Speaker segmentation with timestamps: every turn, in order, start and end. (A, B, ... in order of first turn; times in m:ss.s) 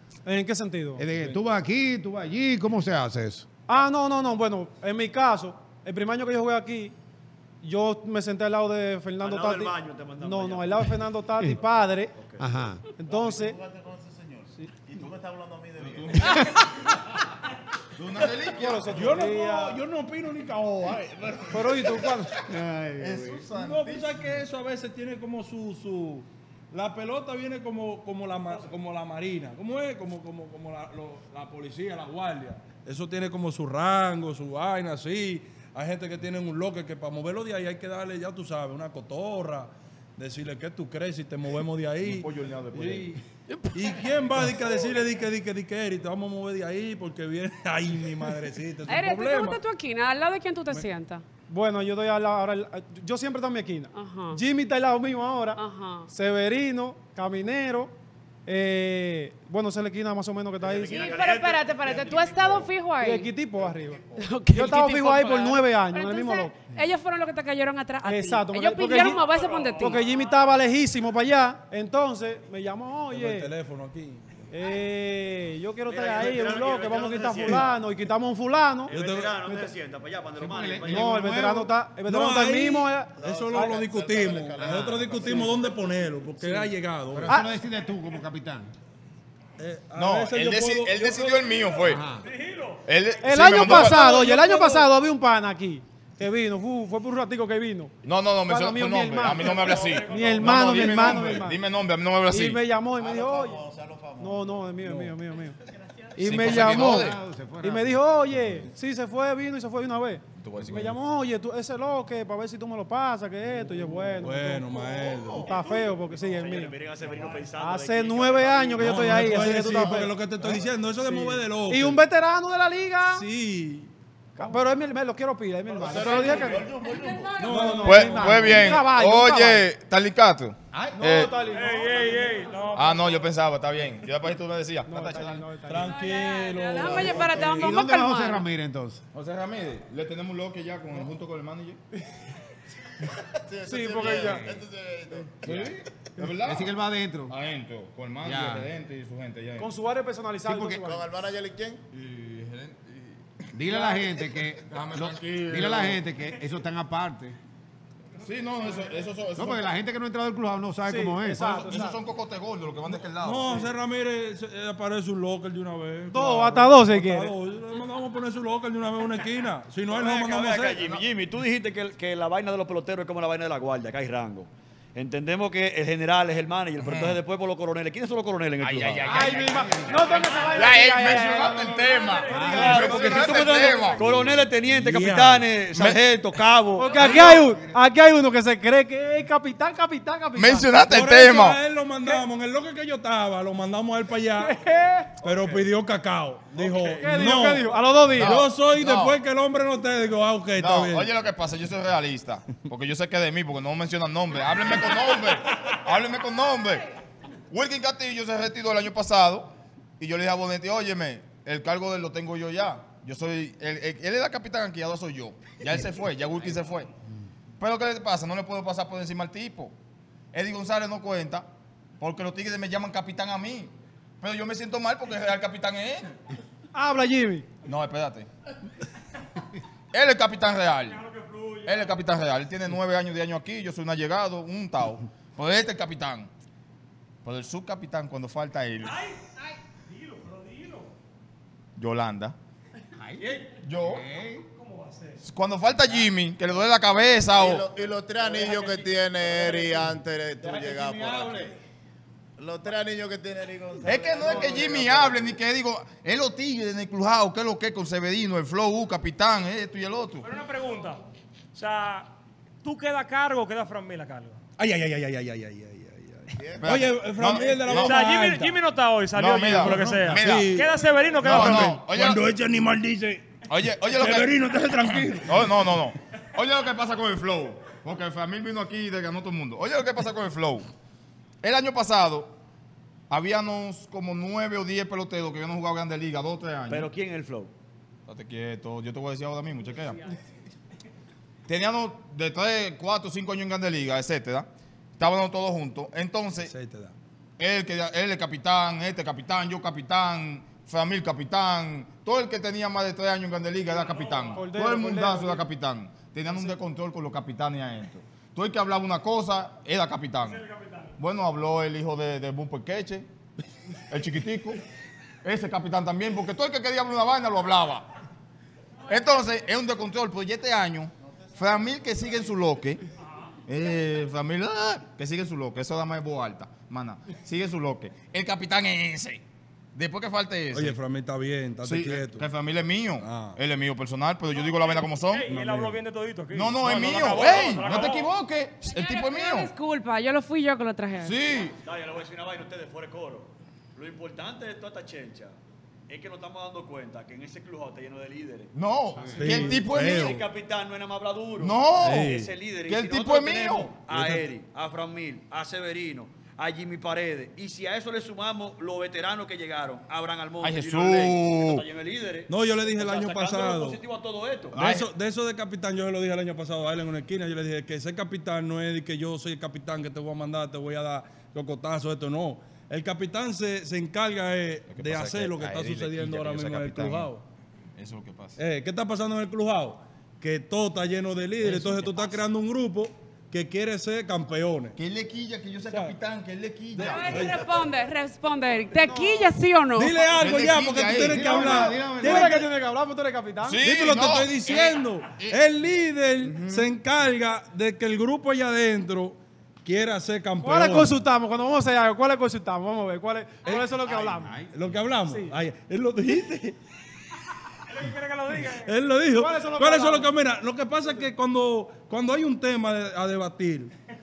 0:00.3-0:01.1 A
0:01.0-0:03.5 B
0:03.7-0:06.9 A
0:07.6-0:12.1 A
0:09.2-0:11.0 C
0:12.2-0:12.5 C
0:12.4-0:12.8 B
0:13.0-0:13.6 A
0:13.1-0:16.6 D
0:15.8-0:16.6 E
0:18.0-0:19.1 E
0:18.4-0:18.8 D
0:18.5-0:19.8 A
0:18.9-0:22.1 F
0:21.5-0:22.4 A
0:22.5-0:23.3 B
0:22.9-0:23.7 D
0:23.0-0:24.1 E
0:23.5-0:43.2 F
0:42.0-0:43.2 E
0:43.7-0:44.1 G
0:43.7-0:49.6 F
0:48.8-0:51.2 G
0:51.5-0:57.9 A
0:53.9-0:54.4 G
0:55.6-0:56.1 G
0:58.4-1:01.2 A
1:00.6-1:02.7 C
1:00.9-1:03.3 G
1:03.0-1:06.6 A
1:04.2-1:10.0 G
1:08.0-1:13.5 A
1:09.0-1:10.5 H
1:13.1-1:14.4 F
1:14.5-1:18.9 A
1:15.9-1:17.8 C
1:18.9-1:19.7 F
1:18.9-1:21.4 C
1:20.4-1:21.7 B
1:20.9-1:23.1 A
1:22.1-1:27.4 F
1:23.2-1:26.6 D
1:27.1-1:28.7 B
1:29.6-1:31.5 F
1:30.0-1:32.1 E
1:31.4-1:33.7 H
1:31.8-1:32.2 B
1:32.9-1:34.1 E
1:33.2-1:37.9 A
1:33.6-1:34.9 F
1:38.0-1:42.6 E
1:38.4-1:41.6 A
1:39.3-1:41.1 H
1:39.6-1:40.2 D
1:42.3-1:43.6 A
1:43.0-1:44.7 D
1:44.2-1:45.6 A
1:44.8-1:45.2 F
1:46.1-1:56.7 A
1:46.2-1:47.2 E
1:46.3-1:48.7 B
1:50.4-1:51.0 E
1:54.1-1:55.5 F
1:55.5-1:56.2 H
1:56.2-1:59.1 C
1:57.6-2:00.1 A
1:58.8-2:02.0 F
1:59.0-2:00.1 D
2:01.0-2:03.3 A
2:03.1-2:04.6 F
2:04.4-2:06.7 A
2:05.7-2:07.4 D
2:06.0-2:08.8 G
2:07.4-2:08.7 F
2:07.4-2:09.7 A
2:07.8-2:11.4 E
2:10.7-2:11.0 B
2:10.9-2:12.4 A
2:11.4-2:13.2 H
2:12.8-2:15.6 E
2:14.9-2:15.9 A
2:15.6-2:17.8 F
2:15.7-2:18.5 G
2:17.5-2:19.0 B
2:19.1-2:21.8 E
2:23.4-2:25.4 D
2:23.6-2:24.5 A
2:24.0-2:24.6 E
2:25.4-2:26.7 E
2:26.4-2:27.4 B
2:27.3-2:29.7 E
2:28.2-2:28.7 B
2:29.6-2:31.1 A
2:30.4-2:30.8 B
2:30.7-2:31.9 D
2:31.9-2:33.2 E
2:33.5-2:37.4 B
2:34.6-2:36.0 E
2:38.2-2:39.6 E
2:39.4-2:41.6 B
2:40.8-2:42.0 A
2:41.4-2:43.7 E
2:43.2-2:50.9 F
2:46.1-2:47.3 A
2:49.9-2:59.3 C
2:56.8-2:57.2 E
2:58.6-3:04.0 E
2:59.1-3:03.4 A
2:59.2-2:59.9 B
3:01.6-3:04.0 H
3:02.3-3:02.9 B
3:02.4-3:06.9 C
3:04.1-3:05.5 F
3:05.7-3:06.0 E
3:06.8-3:10.7 A
3:06.9-3:07.4 E
3:07.2-3:07.8 B
3:10.4-3:11.6 E
3:10.8-3:14.6 F
3:14.4-3:15.6 A
3:15.2-3:21.1 F
3:16.6-3:18.4 A
3:18.1-3:19.2 E
3:20.6-3:26.9 E
3:27.5-3:36.9 E
3:37.6-3:39.7 E
3:40.3-3:41.5 E
3:42.0-3:46.2 E
3:46.7-3:47.5 A
3:47.6-3:48.3 E
3:49.9-3:51.0 E
3:50.8-3:52.0 H
3:51.6-3:56.3 E
3:57.2-3:59.0 E
3:58.8-4:00.9 H
4:01.8-4:02.4 E
4:03.0-4:04.4 B
4:03.2-4:03.6 H
4:03.6-4:04.0 E
4:04.5-4:05.2 H
4:05.2-4:07.7 E
4:07.2-4:11.5 D
4:08.2-4:11.6 C
4:12.4-4:15.4 D
4:13.8-4:20.3 E
4:20.2-4:22.1 H
4:22.6-4:24.4 H
4:24.6-4:28.6 F
4:26.3-4:26.9 D
4:26.6-4:28.1 E
4:27.7-4:31.8 H
4:29.1-4:30.6 E
4:29.5-4:33.3 F
4:31.1-4:32.2 E
4:33.5-4:40.7 E
4:33.9-4:35.8 F
4:41.4-4:42.4 E
4:43.1-4:46.9 E
4:46.7-4:47.5 C
4:48.1-4:50.1 E
4:49.8-4:50.2 H
4:51.5-4:56.5 E
4:56.4-4:56.9 F
4:57.4-5:10.4 E
5:03.6-5:04.5 H
5:04.3-5:05.4 A
5:10.2-5:10.9 H
5:11.0-5:13.1 E
5:13.9-5:14.6 E
5:15.2-5:17.9 E
5:18.9-5:22.8 E
5:21.0-5:22.5 D
5:23.0-5:23.4 H
5:23.5-5:29.2 E
5:29.8-5:30.8 E
5:30.5-5:32.3 F
5:31.6-5:35.3 E
5:33.0-5:33.4 F
5:34.3-5:38.1 H
5:35.3-5:35.8 F
5:36.3-5:39.5 E
5:36.8-5:37.7 C
5:38.6-5:41.3 G
5:41.0-5:41.6 E
5:41.6-5:45.4 C
5:45.9-5:48.5 C
5:48.5-5:50.2 E
5:49.0-5:49.4 B
5:49.2-5:49.5 A
5:49.2-5:50.3 F
5:49.5-6:04.6 C
5:51.4-5:53.8 E
5:51.8-5:52.3 F
5:53.9-5:54.3 F
6:00.4-6:01.6 E
6:02.3-6:03.8 F
6:04.5-6:04.9 E
6:04.5-6:17.2 F
6:14.7-6:17.1 E
6:17.8-6:18.4 E
6:18.4-6:24.8 F
6:21.4-6:22.1 E
6:24.8-6:27.2 E
6:25.7-6:26.0 F
6:26.8-6:30.4 G
6:26.8-6:27.6 F
6:28.8-6:29.2 A
6:29.8-6:32.5 F
6:30.2-6:31.4 E
6:30.9-6:32.4 B
6:31.2-6:33.6 A
6:33.4-6:35.4 E
6:33.6-6:40.9 F
6:40.4-6:44.4 A
6:43.9-6:44.5 B
6:44.5-6:46.6 F
6:45.1-6:45.4 A
6:47.7-6:48.8 H
6:48.6-6:53.7 F
6:49.1-6:50.1 A